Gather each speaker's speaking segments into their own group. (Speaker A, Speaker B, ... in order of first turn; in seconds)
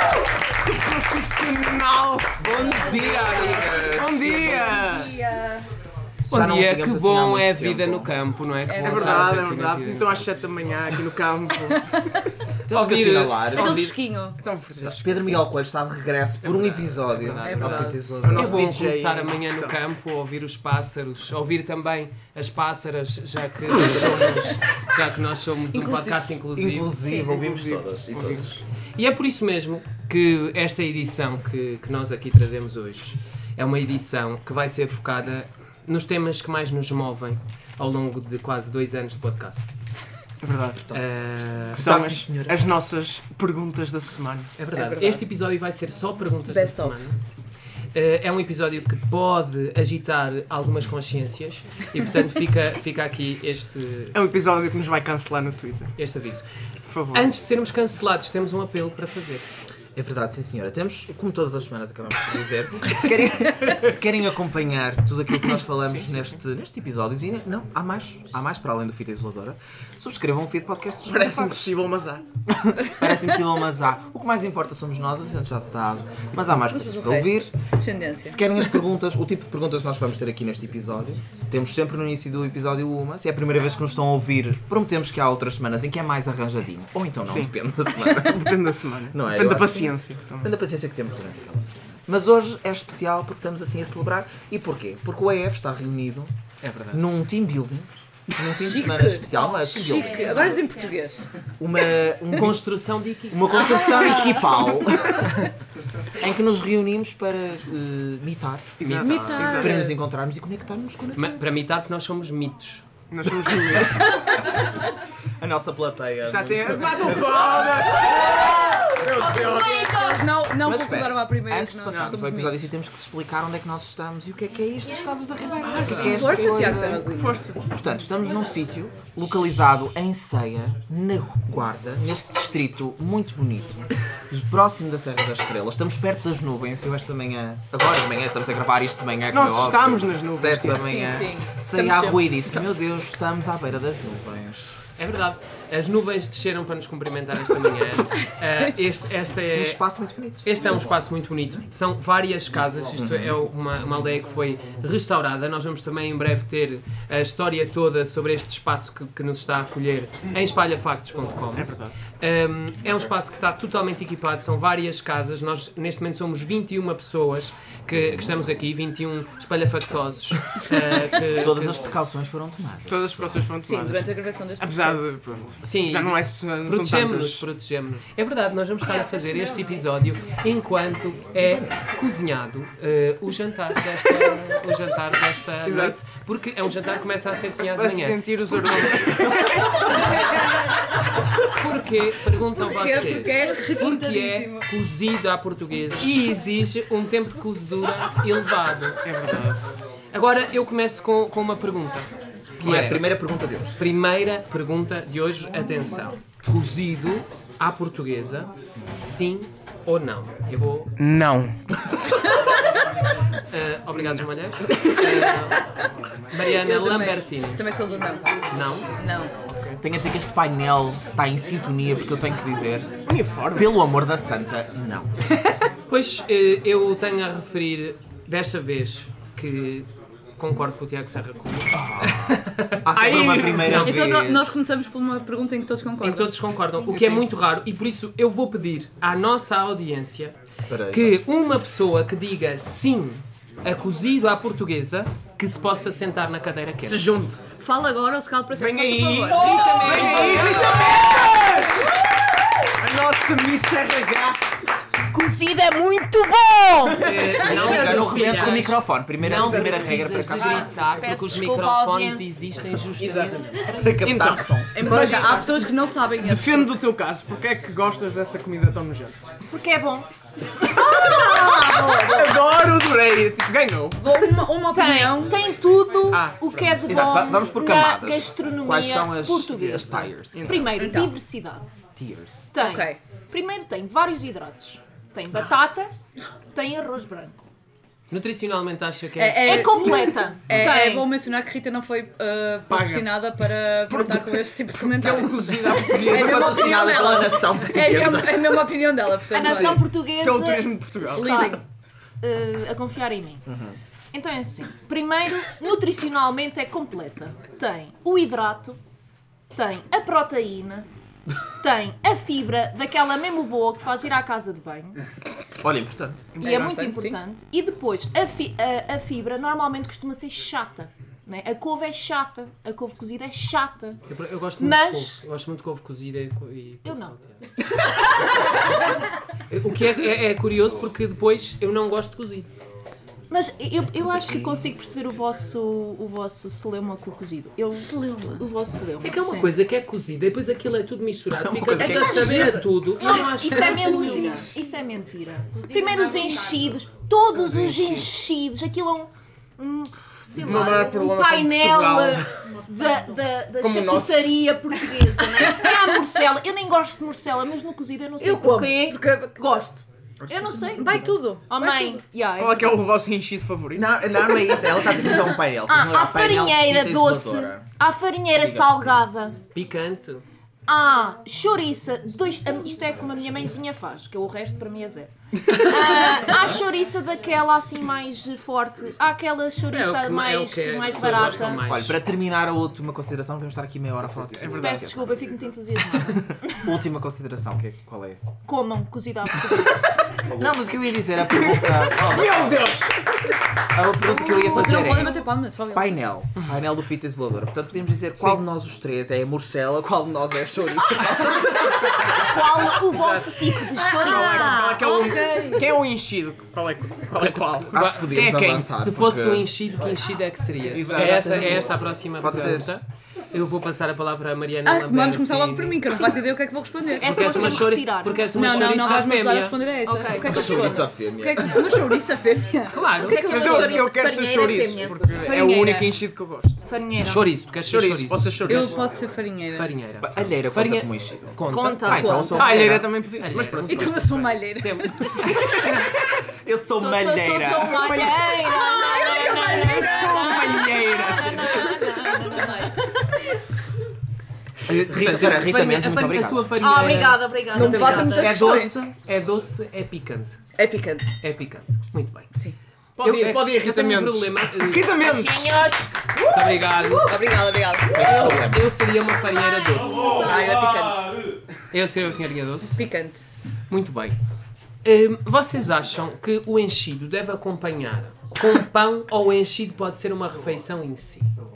Speaker A: 0.6-3.0, 3.7-5.2, 8.8-11.9, 14.4-15.4, 17.4-19.8, 27.2-28.6, 40.4-40.9, 41.8-44.5, 54.1-55.9, 56.9-57.3, 65.8-66.3, 71.1-72.2, 87.3-87.5, 88.1-90.5, 108.8-109.8, 113.1-114.2, 116.3-120.0, 121.9-122.2, 125.6-127.6, 139.3-140.9, 161.6-162.0, 172.9-177.5, 185.7-186.0, 187.7-190.7, 199.1-199.6, 211.0-211.6, 223.1-223.7, 232.9-233.9, 236.9-237.2, 246.8-247.5, 248.5-251.9, 252.7-254.4, 256.8-258.6, 259.3-260.1, 263.0-263.5, 264.0-265.7, 266.2-269.2, 272.0-274.3, 276.1-276.8, 279.6-280.8, 292.7-293.2, 293.9-296.7, 299.5-301.4, 316.4-316.9, 347.3-348.1, 350.4-352.2, 353.6-354.5, 362.4-363.9, 384.3-385.0, 391.4-393.3, 404.0-408.3, 410.7-412.6, 423.2-426.6, 427.7-428.8, 432.3-434.1, 435.2-436.0, 437.5-441.8, 453.0-455.7
Speaker B: 2.4-5.1, 6.3-8.1, 12.7-13.9, 14.8-18.8, 26.5-28.6, 40.9-42.7, 60.0-71.9, 72.5-77.5, 78.2-96.3, 96.9-100.4, 101.6-102.6, 103.3-105.4, 106.2-111.5, 115.4-118.1, 120.6-127.1, 127.7-144.8, 149.5-151.0, 152.9-153.4, 171.3-173.4, 181.3-181.7, 202.6-203.8, 219.8-222.9, 223.5-225.1, 231.7-234.6, 240.7-241.2, 257.4-260.7, 263.8-264.9, 276.9-280.6, 282.0-282.5, 296.0-298.6, 303.5-303.8, 315.6-316.3, 333.9-334.7, 341.3-342.5, 360.2-361.1, 363.7-367.7, 368.3-368.8, 381.6-385.2, 386.6-388.2, 390.3-392.8, 393.7-395.2, 395.7-402.7, 407.7-409.5, 410.7-412.7, 420.2-421.8, 430.0-432.9, 436.4-438.1, 444.7-446.6, 457.9-458.8
Speaker C: 2.5-5.7, 8.7-9.4, 13.5-14.4, 17.4-17.9, 25.8-26.2, 44.7-45.2, 46.5-47.0, 76.7-78.4, 98.6-101.2, 103.5-104.9, 109.0-110.0, 113.7-114.6, 118.2-122.6, 125.8-127.5, 140.7-142.6, 173.6-175.0, 192.6-194.7, 216.5-218.3, 219.0-219.3, 233.7-236.3, 247.6-250.9, 264.8-266.7, 270.7-272.4, 274.0-275.4, 280.7-281.2, 282.6-283.0, 289.2-299.9, 301.1-301.6, 316.4-317.2, 337.7-338.4, 341.8-344.6, 345.9-346.2, 355.4-355.8, 358.2-359.7, 360.7-362.0, 394.1-396.0, 403.5-405.7, 414.6-417.7, 418.3-422.8, 425.2-426.0, 428.5-429.7, 432.1-432.4, 433.7-435.3, 447.5-448.8, 450.6-451.1, 457.0-458.4, 460.1-461.2, 462.8-463.2
Speaker D: 6.3-10.3, 12.7-13.9, 16.4-26.9, 29.0-39.8, 40.9-42.0, 44.6-47.2, 47.9-54.2, 56.0-56.5, 57.1-59.5, 96.6-97.1, 102.3-103.7, 108.8-109.5, 111.2-112.9, 145.0-149.8, 150.4-172.0, 175.6-188.2, 191.4-199.0, 200.1-203.1, 203.8-210.9, 213.5-215.6, 216.3-217.6, 218.5-218.9, 225.9-234.0, 236.0-247.1, 249.3-250.7, 257.0-264.3, 288.1-289.9, 324.1-327.4, 329.5-332.5, 339.0-344.5, 369.5-370.2, 379.7-382.0, 402.9-403.4, 407.2-415.8, 417.0-419.6, 422.7-423.8, 427.0-428.8, 429.6-435.0, 444.7-450.4, 451.2-452.3, 453.0-454.9, 456.3-457.2, 458.0-460.3, 461.7-462.8, 463.7-464.2, 464.8-471.3
Speaker E: 99.7-101.0, 119.4-120.2, 249.3-251.1, 255.1-257.0, 260.5-262.4, 269.5-270.1, 270.7-272.3, 274.7-281.6, 282.5-285.9, 286.5-287.4, 289.4-291.1, 299.3-301.6, 302.2-303.4, 304.1-308.8, 309.5-310.9, 311.6-315.0, 316.4-324.0, 324.6-325.2, 326.9-327.1, 333.3-339.5, 342.9-362.9, 364.5-369.4, 370.7-381.8, 384.6-386.7, 388.4-389.9, 394.1-395.2, 402.1-404.8, 415.9-416.2, 416.8-419.0, 419.9-420.8, 423.0-425.1, 426.6-427.3, 431.5-432.7, 436.8-443.2, 446.6-448.6, 455.0-456.9, 459.2-460.4